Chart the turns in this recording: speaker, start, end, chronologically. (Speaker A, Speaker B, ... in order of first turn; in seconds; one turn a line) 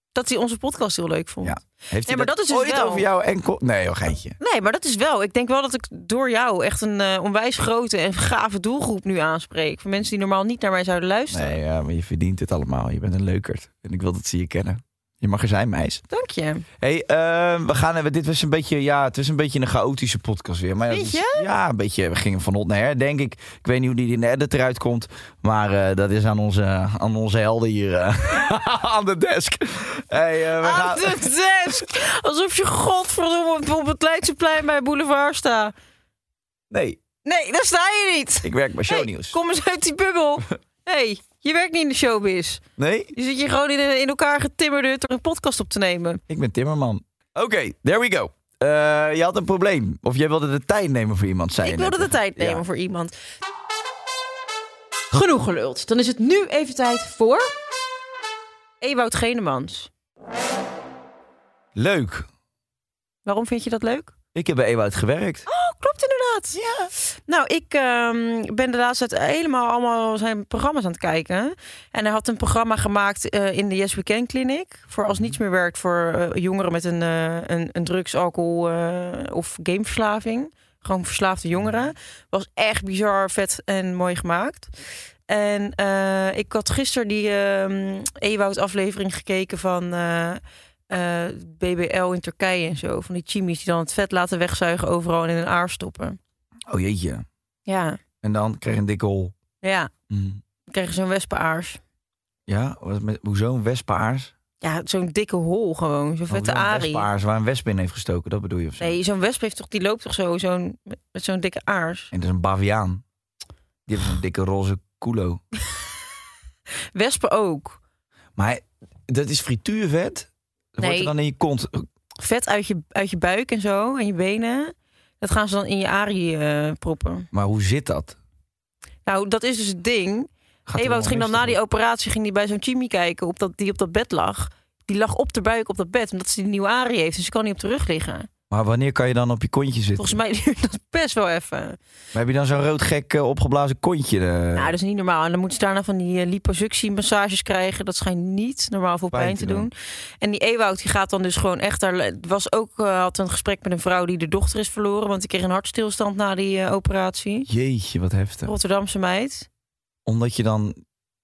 Speaker A: 0.1-3.1
Speaker B: 1.4-4.4
Speaker A: 4.4-11.6
Speaker B: 11.3-16.0
Speaker A: 16.1-16.6
Speaker B: 16.8-31.2
Speaker A: 20.9-21.5
Speaker A: 30.6-35.7
Speaker B: 36.7-37.0
Speaker A: 37.2-42.6
Speaker B: 38.4-39.4
Speaker B: 42.8-43.1
Speaker A: 43.1-46.2
Speaker B: 46.3-52.6
Speaker A: 51.6-53.1
Speaker A: 55.1-57.5
Speaker A: 58.8-59.9
Speaker B: 61.8-62.3
Speaker A: 63.3-64.1
Speaker B: 64.3-65.5
Speaker A: 65.5-66.6
Speaker B: 66.5-66.9
Speaker A: 67.3-84.7
Speaker B: 75.1-75.3
Speaker A: 85.3-96.2
Speaker B: 96.7-97.3
Speaker A: 97.7-98.0
Speaker B: 98.2-99.3
Speaker A: 99.6-99.9
Speaker B: 100.1-100.4
Speaker A: 100.7-101.8
Speaker B: 102.5-104.3
Speaker A: 104.6-107.1
Speaker B: 106.3-109.0
Speaker A: 108.8-112.1
Speaker B: 112.1-113.0
Speaker B: 113.9-115.4
Speaker A: 116.9-117.8
Speaker B: 118.4-121.9
Speaker A: 120.8-121.1
Speaker A: 122.2-127.3
Speaker B: 127.3-128.2
Speaker A: 129.1-138.3
Speaker B: 130.7-131.6
Speaker B: 138.5-140.2
Speaker A: 140.0-141.8
Speaker B: 142.1-144.7
Speaker A: 144.6-157.5
Speaker B: 149.1-149.7
Speaker B: 157.5-158.5
Speaker A: 158.4-159.5
Speaker B: 160.1-160.8